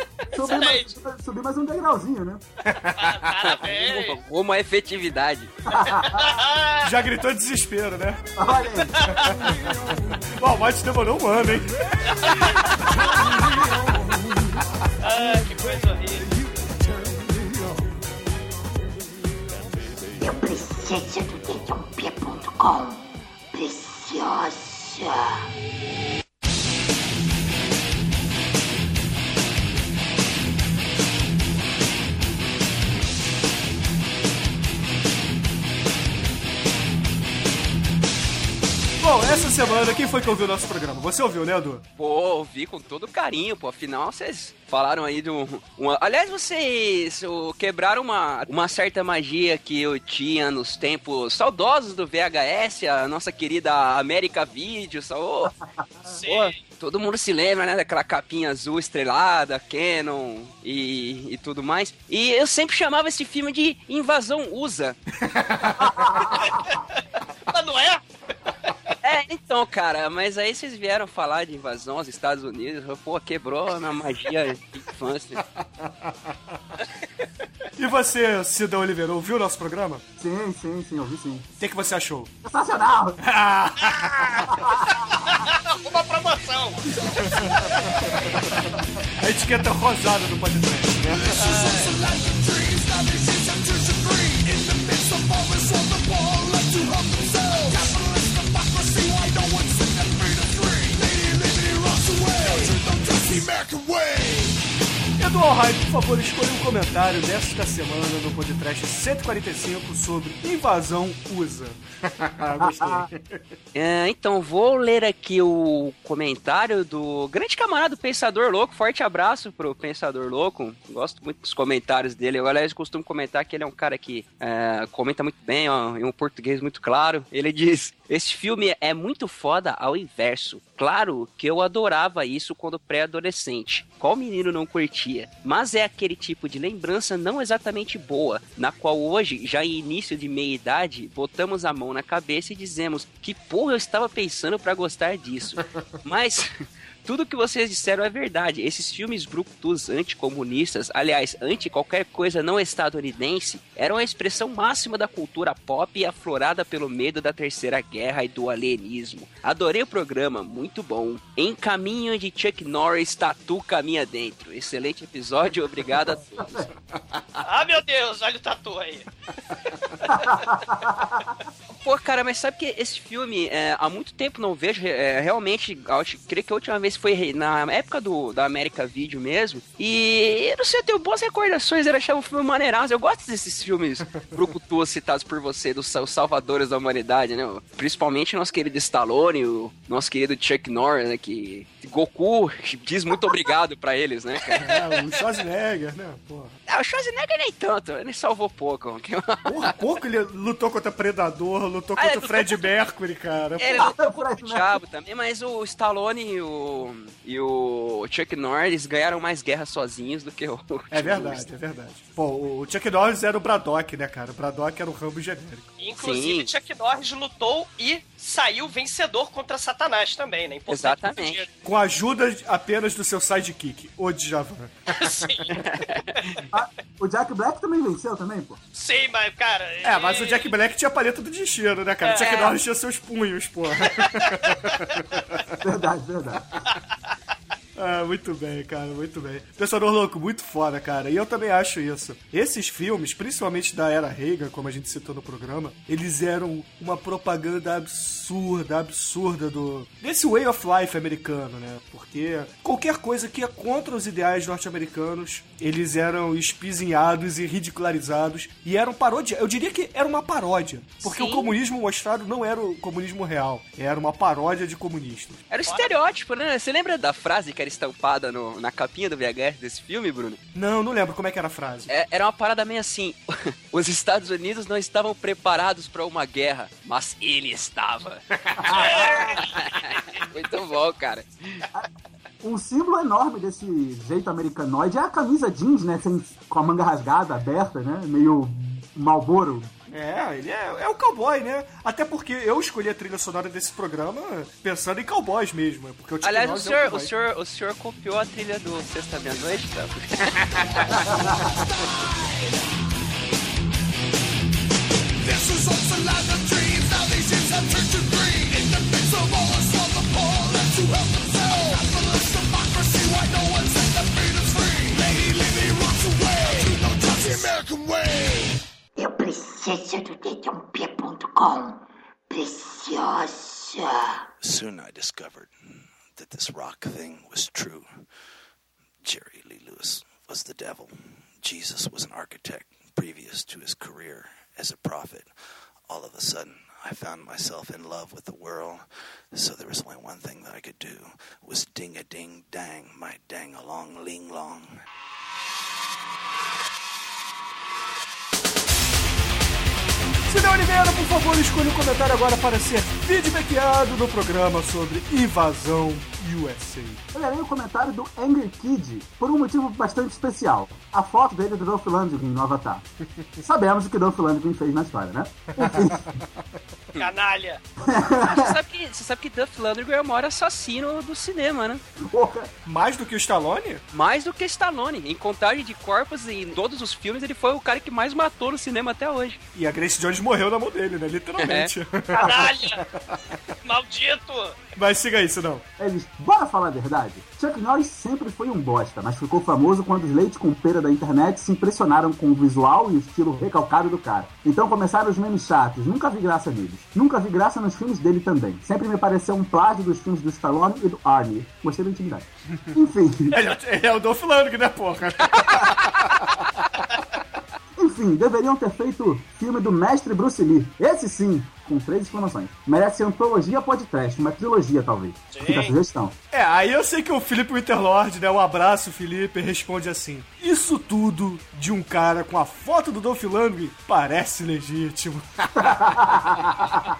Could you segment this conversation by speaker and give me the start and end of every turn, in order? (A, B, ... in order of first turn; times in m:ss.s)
0:00.3-0:02.4 A
0:00.4-0:00.9 B
0:02.8-0:04.2 B
0:02.8-0:03.1 C
0:03.4-0:05.5 D
0:05.7-0:06.2 A
0:05.8-0:06.9 B
0:06.8-0:08.3 C
0:08.4-0:09.0 A
0:08.8-0:09.4 B
0:09.1-0:09.5 C
0:09.4-0:10.3 E
0:10.3-0:12.2 C
0:12.1-0:12.9 B
0:12.7-0:18.1 E
0:15.0-0:16.3 B
0:19.5-0:20.0 E
0:20.2-0:25.4 F
0:39.0-0:41.8 C
0:42.0-0:55.5 D
0:56.1-0:56.5 B
0:56.3-1:05.0 D
1:05.2-1:05.6 C
1:05.8-1:06.4 A
1:07.5-1:08.0 B
1:09.0-1:15.4 D
1:15.8-1:16.1 C
1:17.8-1:20.0 C
1:20.2-1:21.4 A
1:21.6-1:22.3 C
1:22.4-1:23.2 A
1:23.2-1:24.5 C
1:23.8-1:24.5 B
1:24.5-1:24.9 A
1:25.1-1:28.5 B
1:27.2-1:27.7 C
1:28.5-1:31.4 C
1:31.2-1:44.6 E
1:31.4-1:32.0 B
1:45.2-1:53.4 C
1:52.6-1:53.1 A
1:53.7-2:46.6 D
2:47.4-2:49.1 B
2:49.7-2:50.4 B
2:50.2-2:51.2 A
2:51.7-3:14.6 D
3:14.5-3:15.2 B
3:14.6-3:16.6 C
3:16.7-3:19.7 D
3:19.4-3:23.9 C
3:22.0-3:22.6 D
3:23.6-3:31.4 D
3:23.8-3:24.8 A
3:30.9-3:35.7 C
3:35.8-3:41.5 B
3:36.0-3:36.5 D
3:40.7-3:41.4 D
3:41.6-3:45.3 C
3:45.0-3:45.6 B
3:45.6-3:46.4 D
3:46.2-3:46.4 B
3:46.5-3:48.6 A
3:48.7-3:50.5 B
3:49.8-3:55.6 C
3:52.0-3:52.6 B
3:53.9-3:54.5 B
3:55.6-3:56.4 A
3:57.8-4:25.4 C
4:21.0-4:21.5 D
4:25.5-4:30.4 D
4:30.5-4:31.9 C
4:31.9-4:41.6 D
4:38.8-4:39.5 B
4:42.4-4:49.7 A
4:49.9-4:57.1 C
4:56.2-5:01.1 D
5:01.5-5:02.7 E
5:05.2-5:18.6 E
5:19.0-5:24.2 F
5:24.4-5:25.5 G
5:26.2-5:27.9 G
5:29.0-5:35.3 G
5:35.9-5:44.8 G
5:50.3-5:57.0 C
5:57.1-6:02.8 A
6:03.4-6:06.1 A
6:07.0-6:07.6 B
6:07.8-6:08.6 A
6:08.2-6:11.8 D
6:12.1-6:12.5 A
6:12.6-6:13.8 C
6:13.9-6:19.4 D
6:19.5-6:23.4 C
6:21.4-6:21.7 D
6:22.1-6:22.8 B
6:23.6-6:24.6 B
6:24.8-6:25.6 C
6:25.8-6:43.4 A
6:43.3-6:46.2 C
6:47.8-6:56.1 A
6:55.3-6:55.8 B
6:56.3-7:06.4 C
7:05.6-7:06.8 A